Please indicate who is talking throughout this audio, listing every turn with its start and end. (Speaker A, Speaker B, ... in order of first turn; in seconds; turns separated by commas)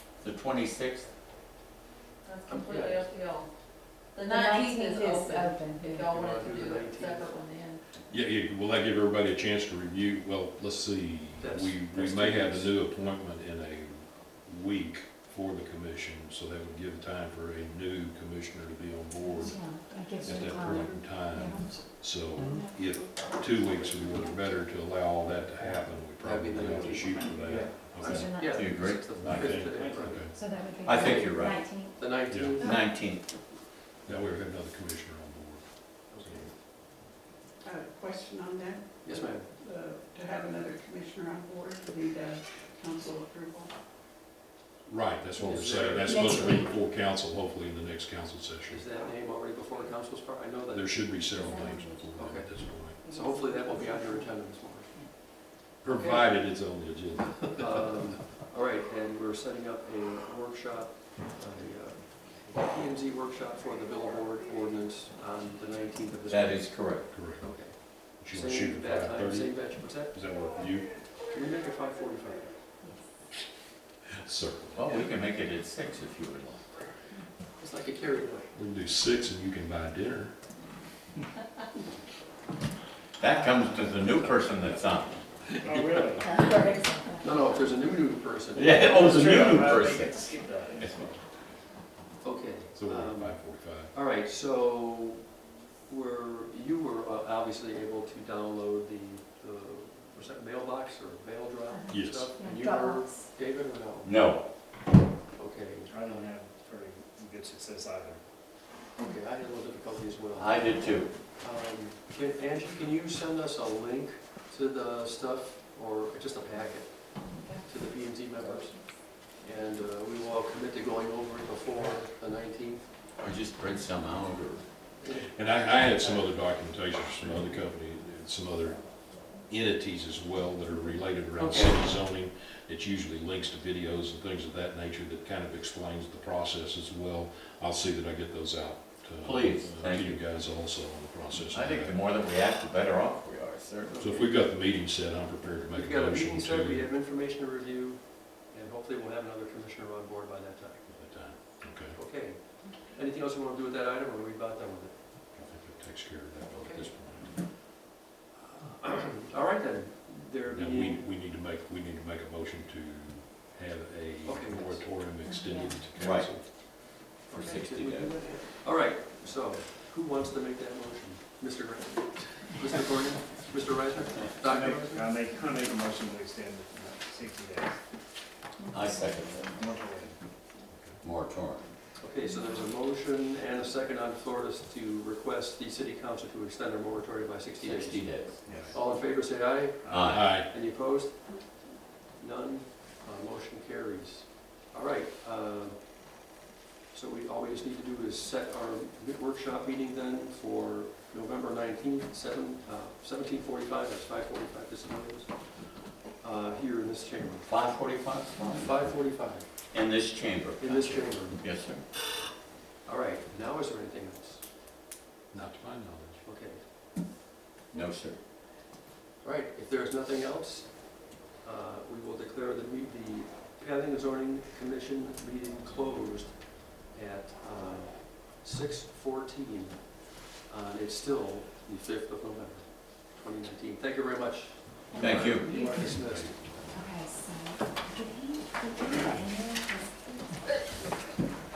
Speaker A: 0.2-1.1, Speaker B: 2.2-7.8, Speaker C: 2.5-3.1, Speaker D: 4.2-6.1, Speaker C: 5.9-7.3, Speaker E: 8.1-30.3, Speaker C: 11.4-12.7, Speaker D: 19.4-21.7, Speaker F: 19.4-21.0, Speaker F: 21.6-21.8, Speaker F: 22.4-23.3, Speaker C: 26.2-32.9, Speaker G: 26.6-27.7, Speaker D: 28.0-28.6, Speaker A: 28.5-29.1, Speaker G: 29.5-30.1, Speaker D: 30.3-32.1, Speaker A: 30.8-31.6, Speaker E: 32.3-32.5, Speaker A: 32.6-33.4, Speaker E: 34.0-36.5, Speaker C: 36.1-36.5, Speaker F: 37.6-43.7, Speaker C: 39.0-39.5, Speaker E: 44.9-48.8, Speaker C: 45.4-46.6, Speaker D: 46.0-46.7, Speaker C: 48.7-51.1, Speaker E: 50.7-53.0, Speaker D: 51.3-52.1, Speaker C: 52.1-55.1, Speaker D: 53.0-54.3, Speaker E: 55.8-58.1, Speaker C: 55.9-56.4, Speaker C: 57.5-66.8, Speaker A: 66.3-67.1, Speaker E: 67.1-71.0, Speaker C: 67.4-70.2, Speaker C: 71.2-72.7, Speaker E: 74.2-75.0, Speaker A: 74.7-76.7, Speaker C: 77.6-78.5, Speaker E: 78.5-80.3, Speaker A: 83.2-85.2, Speaker C: 85.5-86.5, Speaker G: 85.6-86.5, Speaker D: 86.2-87.2, Speaker C: 87.2-89.5, Speaker A: 88.5-90.2, Speaker G: 88.8-91.2, Speaker A: 90.8-91.1, Speaker C: 92.2-104.1, Speaker E: 92.7-93.9, Speaker D: 101.7-103.2, Speaker E: 101.9-102.3, Speaker A: 104.0-104.5, Speaker C: 105.3-105.9, Speaker G: 105.9-108.2, Speaker C: 109.0-122.9, Speaker A: 110.3-111.1, Speaker D: 117.3-117.6, Speaker A: 123.2-124.7, Speaker C: 125.0-126.3, Speaker E: 125.3-141.9, Speaker A: 131.4-131.8, Speaker A: 139.2-140.2, Speaker A: 141.5-144.0, Speaker C: 143.9-144.3, Speaker E: 144.0-146.9, Speaker C: 145.7-150.9, Speaker E: 150.9-152.0, Speaker C: 151.9-154.9, Speaker E: 155.3-157.4, Speaker C: 156.5-156.9, Speaker C: 158.5-161.1, Speaker E: 160.5-166.5, Speaker C: 164.2-164.8, Speaker D: 165.2-165.9, Speaker A: 165.9-166.3, Speaker C: 167.3-175.2, Speaker A: 167.3-168.2, Speaker G: 174.4-177.8, Speaker D: 178.6-179.7, Speaker A: 178.7-179.5, Speaker G: 179.5-180.2, Speaker E: 180.7-181.0, Speaker A: 181.0-181.7, Speaker C: 182.0-196.1, Speaker A: 187.6-188.4, Speaker G: 188.4-188.8, Speaker E: 188.5-188.7, Speaker G: 189.8-190.1, Speaker A: 189.9-190.3, Speaker E: 190.1-190.5, Speaker C: 196.9-205.7, Speaker C: 206.2-207.5, Speaker A: 207.4-209.0, Speaker C: 208.6-209.5, Speaker A: 209.7-211.8, Speaker C: 210.6-211.4, Speaker C: 212.8-214.4, Speaker E: 215.3-216.2, Speaker C: 216.2-216.6, Speaker A: 217.7-218.2, Speaker C: 219.2-236.8, Speaker D: 234.9-235.7, Speaker A: 235.0-235.5, Speaker E: 235.5-236.7, Speaker D: 236.7-239.8